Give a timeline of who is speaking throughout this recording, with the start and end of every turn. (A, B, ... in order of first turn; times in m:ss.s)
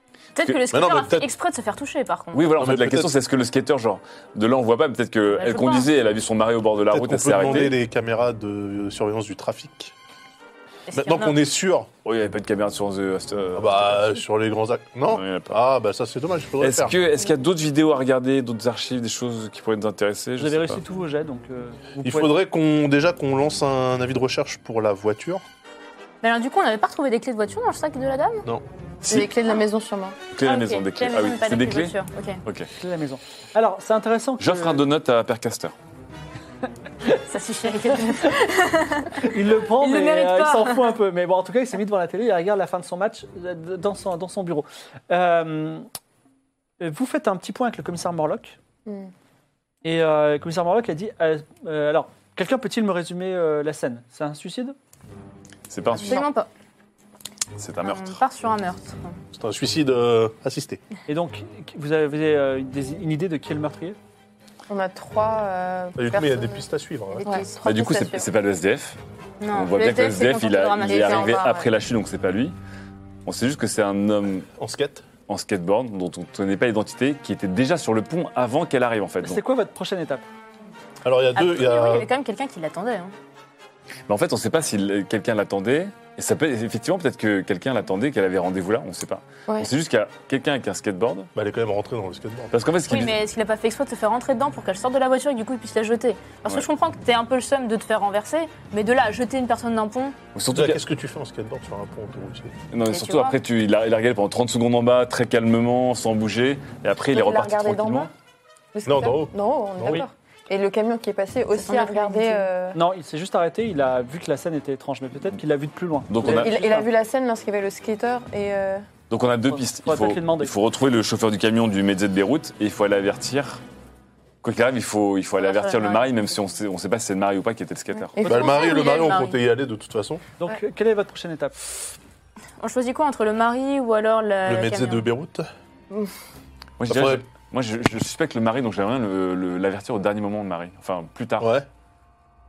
0:00.3-0:02.5 A
0:00.7-0:01.3 B
0:02.3-0:07.8 C
0:02.6-0:03.1 B
0:05.4-0:05.9 A
0:06.9-0:09.9 B
0:10.9-0:11.4 A
0:10.9-0:11.9 B
0:12.0-0:14.2 C
0:13.6-0:16.9 B
0:15.1-0:15.5 C
0:16.6-0:20.8 C
0:20.4-0:22.4 D
0:22.0-0:25.4 B
0:26.2-0:28.4 A
0:28.4-0:29.2 B
0:29.1-0:30.2 E
0:30.3-0:32.7 C
0:30.4-0:32.4 A
0:32.8-0:34.8 D
0:34.4-0:35.7 C
0:37.1-0:40.8 A
0:39.2-0:45.8 D
0:46.8-0:48.6 D
0:48.8-0:49.1 E
0:49.8-0:54.7 D
0:55.7-0:56.2 C
0:55.9-0:56.5 A
0:57.6-0:58.2 C
0:57.8-0:59.2 A
0:59.3-1:00.8 B
1:01.1-1:04.0 D
1:04.7-1:06.7 E
1:06.0-1:07.3 B
1:07.1-1:07.6 A
1:07.2-1:08.3 E
1:07.6-1:09.0 C
1:09.4-1:11.5 A
1:09.5-1:12.5 C
1:10.8-1:11.7 E
1:13.2-1:14.5 C
1:14.6-1:15.1 B
1:15.3-1:19.4 C
1:19.2-1:20.2 D
1:21.0-1:22.1 B
1:21.4-1:23.1 A
1:24.1-1:31.3 C
1:31.3-1:32.6 B
1:32.5-1:33.2 C
1:32.9-1:40.2 A
1:40.3-1:40.8 C
1:40.5-1:42.6 B
1:42.7-1:48.1 C
1:42.9-1:43.4 A
1:47.1-1:48.1 E
1:48.7-1:52.8 E
1:48.8-1:50.0 B
1:51.5-1:52.5 A
1:52.7-1:56.9 D
1:56.1-1:56.6 C
1:56.2-1:58.9 E
1:59.1-2:03.6 C
1:59.5-2:00.5 D
2:04.4-2:08.2 C
2:05.4-2:06.0 A
2:08.0-2:09.0 E
2:08.2-2:10.2 B
2:08.2-2:09.4 A
2:10.4-2:11.6 D
2:12.6-2:15.1 A
2:14.4-2:15.5 B
2:16.8-2:21.5 C
2:16.9-2:17.2 B
2:21.4-2:21.6 B